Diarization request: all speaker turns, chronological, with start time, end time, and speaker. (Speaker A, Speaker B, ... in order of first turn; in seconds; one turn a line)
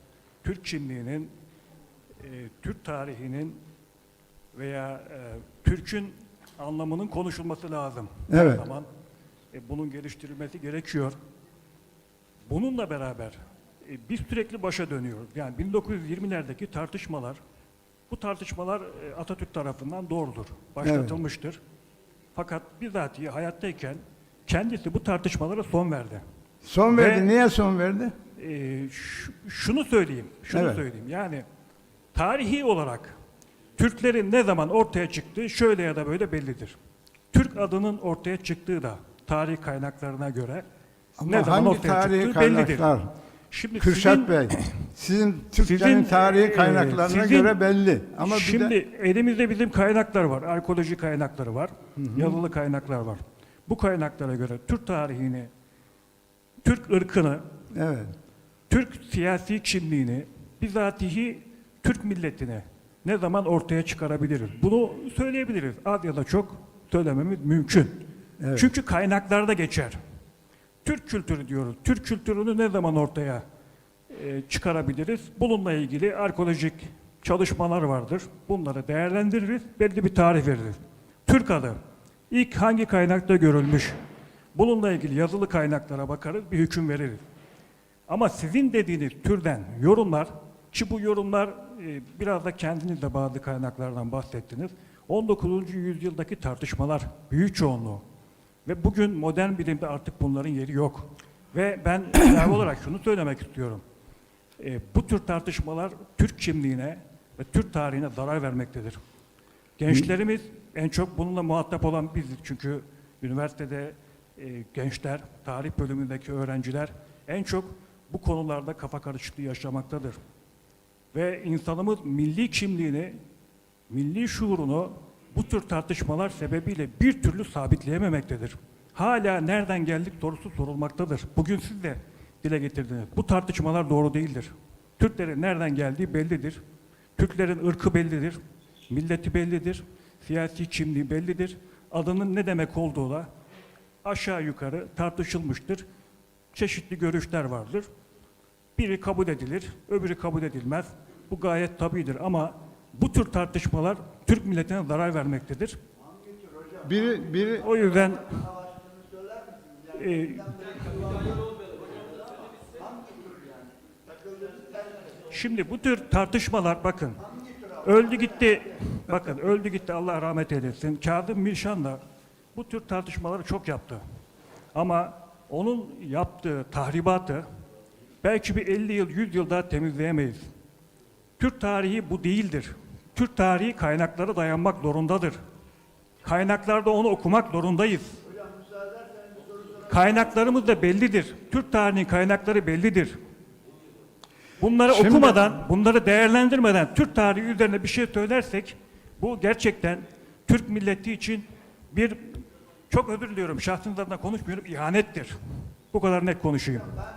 Speaker A: 0.4-1.3
Speaker A: 2.2-3.6
Speaker A: 4.5-8.9
Speaker B: 8.3-8.6
Speaker A: 9.5-11.2
Speaker A: 12.5-17.4
Speaker A: 18.1-21.6
Speaker B: 20.8-21.2
Speaker A: 22.4-26.2
Speaker B: 26.6-28.1
Speaker A: 26.9-27.3
Speaker A: 28.4-31.4
Speaker B: 30.5-30.8
Speaker A: 32.1-33.2
Speaker A: 33.8-36.8
Speaker A: 37.3-40.7
Speaker B: 41.2-43.1
Speaker A: 41.3-43.0
Speaker A: 43.5-44.8
Speaker B: 43.8-48.8
Speaker A: 45.6-47.6
Speaker A: 48.2-55.5
Speaker B: 52.0-52.4
Speaker A: 56.6-57.5
Speaker B: 57.7-58.1
Speaker A: 58.7-70.0
Speaker B: 68.4-68.7
Speaker A: 70.8-73.4
Speaker A: 74.1-81.8
Speaker A: 82.3-84.0
Speaker A: 84.5-87.2
Speaker A: 88.1-98.0
Speaker A: 98.7-103.8
Speaker A: 104.6-109.0
Speaker A: 109.8-120.2
Speaker A: 121.1-123.2
Speaker A: 123.9-136.6
Speaker A: 137.2-143.3
Speaker A: 144.0-145.8
Speaker A: 146.5-147.9
Speaker A: 148.8-155.8
Speaker B: 156.7-157.7
Speaker A: 157.6-158.5
Speaker A: 159.9-161.3
Speaker A: 165.3-167.3
Speaker A: 167.8-172.0
Speaker A: 172.6-174.0
Speaker A: 174.7-177.5
Speaker A: 178.2-180.4
Speaker A: 181.4-185.4
Speaker A: 186.2-188.2
Speaker A: 189.9-193.2
Speaker A: 194.6-205.3
Speaker B: 194.9-195.5
Speaker A: 205.9-206.9